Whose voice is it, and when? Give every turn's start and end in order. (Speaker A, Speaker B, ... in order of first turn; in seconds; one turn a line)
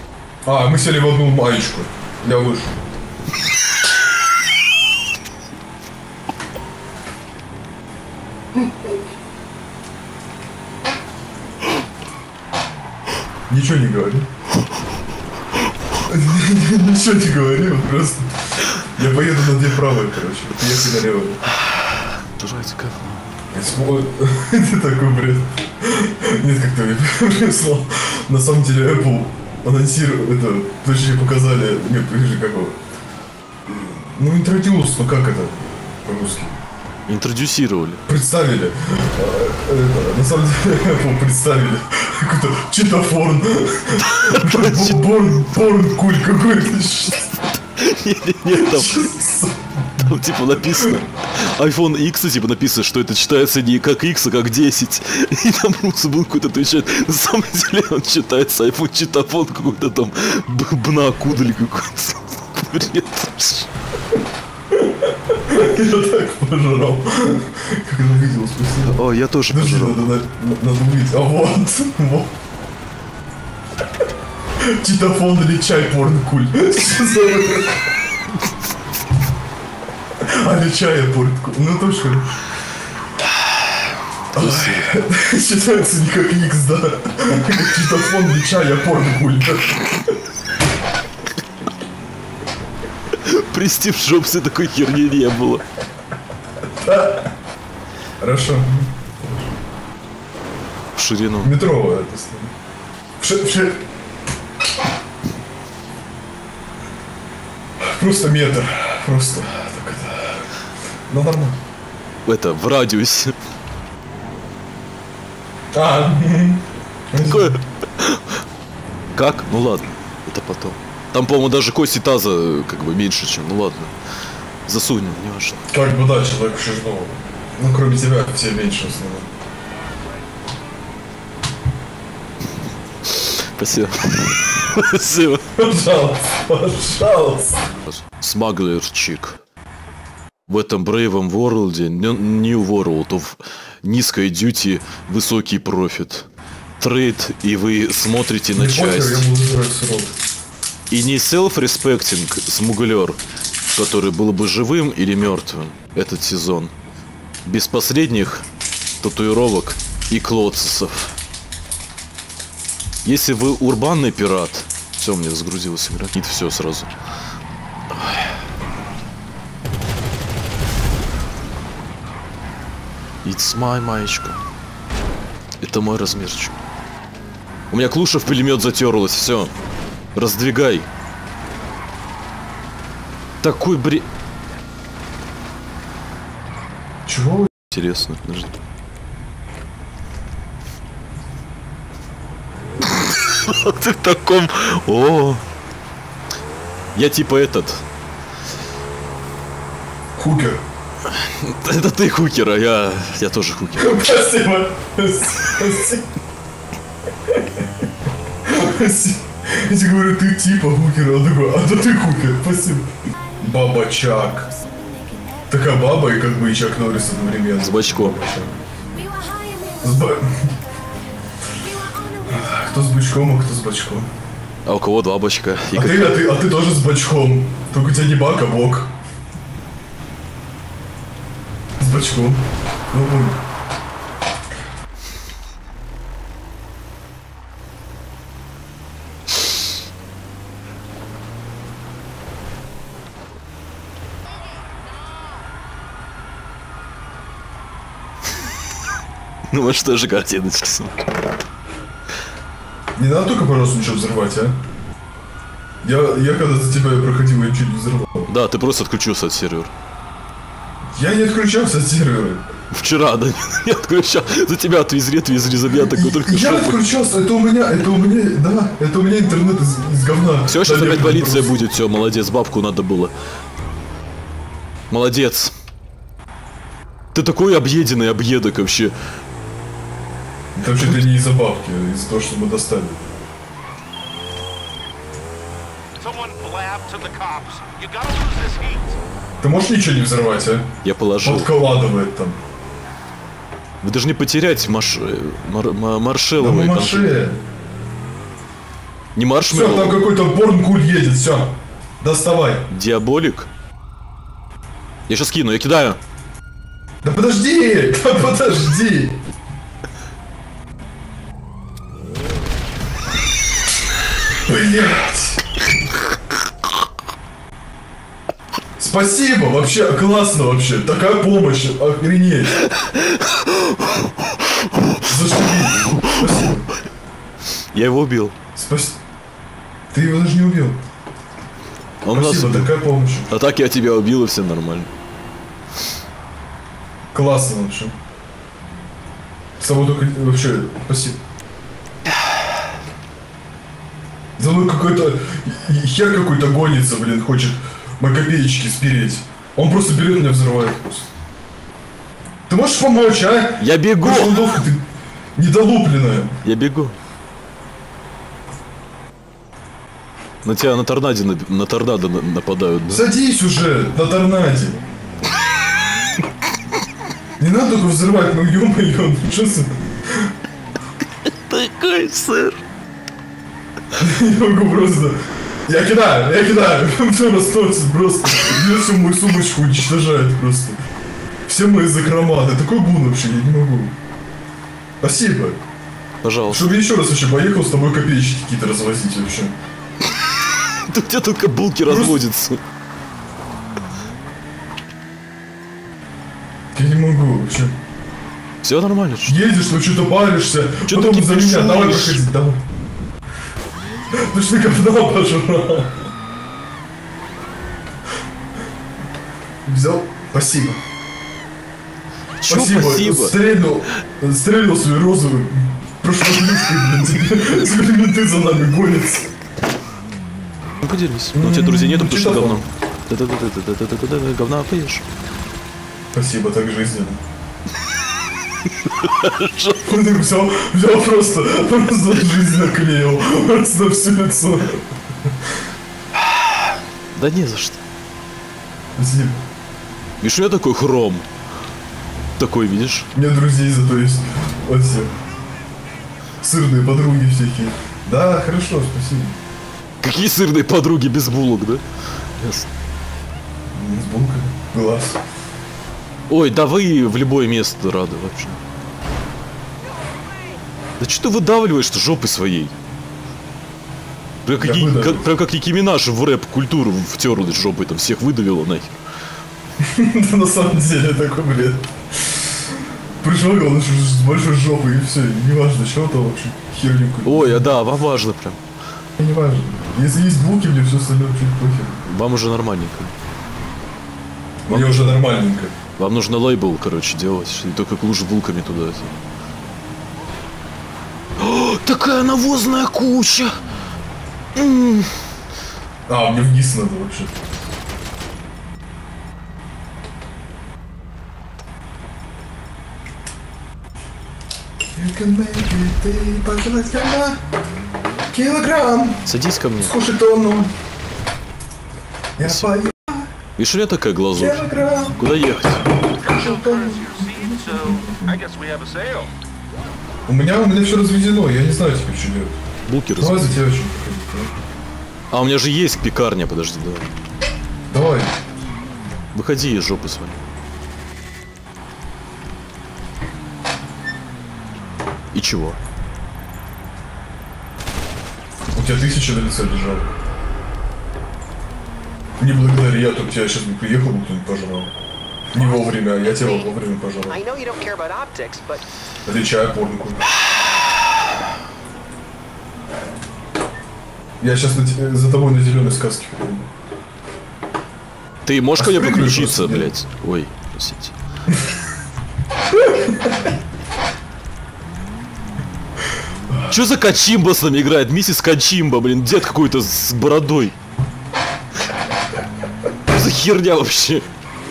Speaker A: 0.5-2.8
Speaker A: 13.5-14.3
Speaker A: 16.1-21.4
Speaker B: 21.7-23.4
Speaker A: 23.5-32.8
Speaker A: 33.7-36.6
Speaker B: 37.1-38.0
Speaker A: 38.1-47.4
Speaker B: 43.9-45.0
Speaker B: 47.8-49.1
Speaker A: 48.5-51.0
Speaker B: 50.0-63.7
Speaker A: 65.5-72.3
Speaker B: 68.9-70.1
Speaker A: 74.8-77.8
Speaker A: 80.2-82.4
Speaker B: 84.3-85.0
Speaker A: 84.3-90.1
Speaker B: 93.2-95.6
Speaker A: 96.8-97.3
Speaker A: 98.2-99.5
Speaker B: 100.9-101.5
Speaker A: 101.4-102.5
Speaker A: 103.2-103.8
Speaker A: 107.8-110.4
Speaker A: 111.1-111.6
Speaker B: 112.3-113.3
Speaker A: 115.7-117.6
Speaker B: 117.2-118.2
Speaker B: 119.2-123.9
Speaker B: 124.7-125.6
Speaker A: 125.7-129.3
Speaker B: 133.1-135.5
Speaker A: 135.6-137.7
Speaker B: 137.8-139.4
Speaker B: 140.5-146.3
Speaker B: 146.8-149.3
Speaker A: 148.5-150.2
Speaker B: 150.9-153.2
Speaker B: 153.7-156.7
Speaker B: 157.4-158.5
Speaker B: 159.0-161.2
Speaker B: 163.0-166.9
Speaker B: 167.9-168.3
Speaker B: 173.2-174.4
Speaker B: 175.6-176.6
Speaker B: 177.7-179.5
Speaker B: 180.2-180.9
Speaker B: 183.4-184.1
Speaker A: 187.1-187.5
Speaker B: 187.7-188.6
Speaker B: 193.0-195.4
Speaker B: 196.9-197.8
Speaker A: 200.2-200.6
Speaker B: 201.2-204.0
Speaker A: 203.8-206.1
Speaker A: 208.5-212.9
Speaker A: 213.4-214.5
Speaker A: 215.5-218.6
Speaker B: 217.6-218.2
Speaker A: 219.8-220.5
Speaker A: 222.2-224.1
Speaker B: 224.7-226.3
Speaker A: 225.7-228.9
Speaker A: 231.8-233.4
Speaker B: 249.5-251.1
Speaker A: 253.0-254.6
Speaker A: 255.8-258.3
Speaker B: 258.3-259.7
Speaker A: 260.9-262.4
Speaker B: 262.7-266.9
Speaker A: 265.8-271.7
Speaker B: 270.5-273.1
Speaker B: 274.9-275.5
Speaker B: 277.1-278.9
Speaker A: 280.6-283.1
Speaker B: 280.7-281.0
Speaker C: 286.0-289.0
Speaker A: 289.4-290.7
Speaker B: 290.8-291.5
Speaker A: 291.2-292.4
Speaker B: 293.8-297.2
Speaker A: 296.4-297.4
Speaker B: 299.1-300.1
Speaker A: 299.5-302.7
Speaker B: 302.7-303.5
Speaker B: 305.1-306.0
Speaker A: 307.0-309.2
Speaker A: 314.5-315.4
Speaker A: 318.8-322.6
Speaker B: 323.2-323.5
Speaker A: 325.0-326.7
Speaker B: 327.7-328.4
Speaker A: 328.6-329.0
Speaker A: 329.9-330.8
Speaker B: 332.0-334.9
Speaker A: 332.1-333.3
Speaker A: 337.1-337.9
Speaker A: 339.6-341.2
Speaker A: 344.4-351.1
Speaker A: 352.5-356.4
Speaker B: 353.6-354.6
Speaker B: 356.4-357.0
Speaker B: 360.4-363.0
Speaker A: 362.9-364.8
Speaker A: 367.4-369.7
Speaker B: 371.3-372.6
Speaker A: 374.0-380.8
Speaker A: 381.5-383.9
Speaker A: 385.0-385.6
Speaker B: 386.2-386.7
Speaker A: 386.5-389.5
Speaker B: 390.9-392.6
Speaker A: 391.8-392.2
Speaker A: 396.7-397.7
Speaker B: 398.6-399.4
Speaker A: 399.3-402.6
Speaker B: 400.9-402.2
Speaker A: 404.1-406.0
Speaker A: 409.6-410.8
Speaker B: 412.4-413.4
Speaker A: 412.5-419.3
Speaker B: 420.8-425.1
Speaker A: 421.3-422.7
Speaker A: 426.1-427.2
Speaker B: 428.9-429.9
Speaker A: 429.9-434.9
Speaker B: 437.1-437.8
Speaker A: 439.0-439.4
Speaker B: 440.2-441.3
Speaker B: 442.4-443.1
Speaker A: 443.1-445.1
Speaker A: 446.4-449.4
Speaker B: 450.0-451.8
Speaker B: 452.4-452.7
Speaker A: 453.7-455.2
Speaker B: 456.3-458.6
Speaker B: 461.0-462.8
Speaker B: 464.4-469.0
Speaker A: 464.6-465.3
Speaker A: 469.8-472.7
Speaker A: 473.2-477.7
Speaker B: 477.2-478.6
Speaker A: 479.2-482.1
Speaker B: 482.1-483.1
Speaker A: 484.7-485.7
Speaker B: 484.7-485.2
Speaker B: 486.0-489.2
Speaker B: 491.4-493.6
Speaker B: 494.6-495.1
Speaker A: 496.1-497.4
Speaker A: 504.9-507.4
Speaker A: 508.3-510.7
Speaker B: 509.3-509.9
Speaker A: 512.4-513.3
Speaker B: 512.4-512.8
Speaker B: 513.6-514.6
Speaker A: 514.3-515.2
Speaker B: 515.2-515.9
Speaker A: 516.1-518.5
Speaker C: 518.5-519.3
Speaker A: 520.3-522.6
Speaker B: 522.9-523.6
Speaker A: 523.2-524.5
Speaker B: 525.3-527.1
Speaker A: 527.9-528.4
Speaker B: 529.3-530.4
Speaker B: 535.3-535.8
Speaker A: 538.7-540.1
Speaker A: 542.4-544.9
Speaker A: 545.5-547.4
Speaker C: 547.3-548.8
Speaker A: 549.3-550.3
Speaker A: 554.4-556.7
Speaker B: 558.5-561.1
Speaker A: 558.8-559.9
Speaker A: 562.8-563.3
Speaker B: 566.7-570.8
Speaker B: 573.1-574.3